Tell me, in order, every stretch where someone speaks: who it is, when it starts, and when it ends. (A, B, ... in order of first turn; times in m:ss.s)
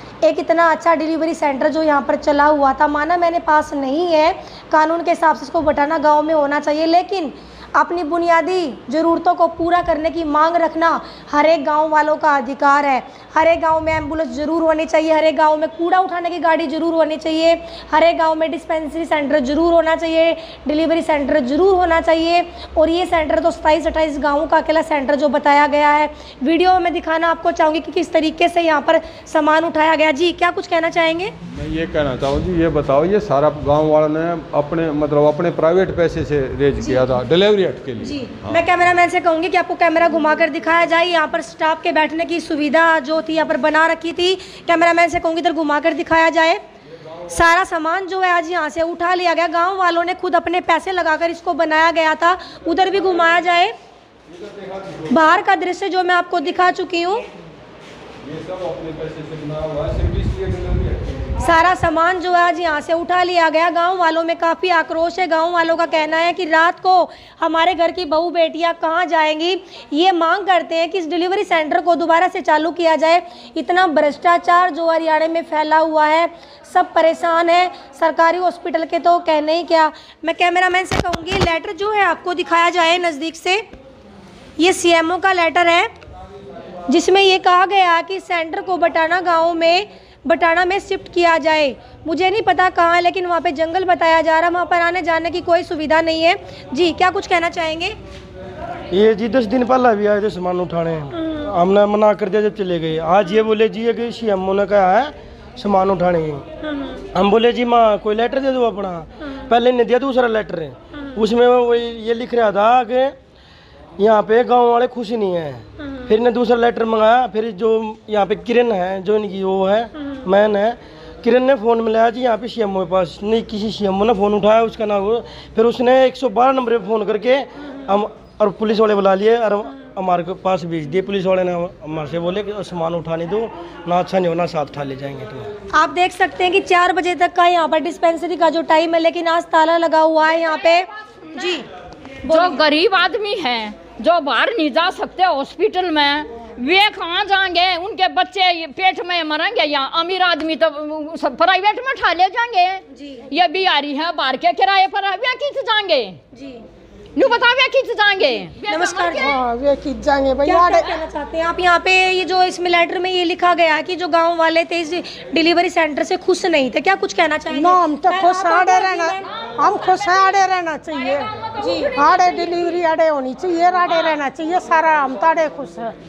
0:00.2-0:31.3 A
0:31.5-0:38.6 B
0:36.8-0:37.1 A
0:38.0-0:46.6 A
0:47.3-0:53.7 A
0:54.3-0:55.3 B
0:55.1-0:57.3 A
0:58.2-1:01.3 B
1:01.4-1:23.6 A
1:24.6-1:25.9 A
1:26.9-1:38.0 A
1:38.9-1:46.5 C
1:46.6-1:47.0 A
1:47.1-1:53.2 C
1:54.0-2:15.5 C
2:15.8-2:21.7 A
2:22.2-2:22.6 A
2:22.3-2:36.2 D
2:32.9-2:33.3 A
2:36.3-2:36.6 A
2:37.2-2:39.4 D
2:38.7-2:39.4 A
2:39.3-2:40.9 E
2:40.4-2:49.3 A
2:47.5-2:51.3 E
2:49.4-2:52.8 D
2:51.6-2:52.0 A
2:52.0-2:56.0 E
2:53.8-2:54.2 D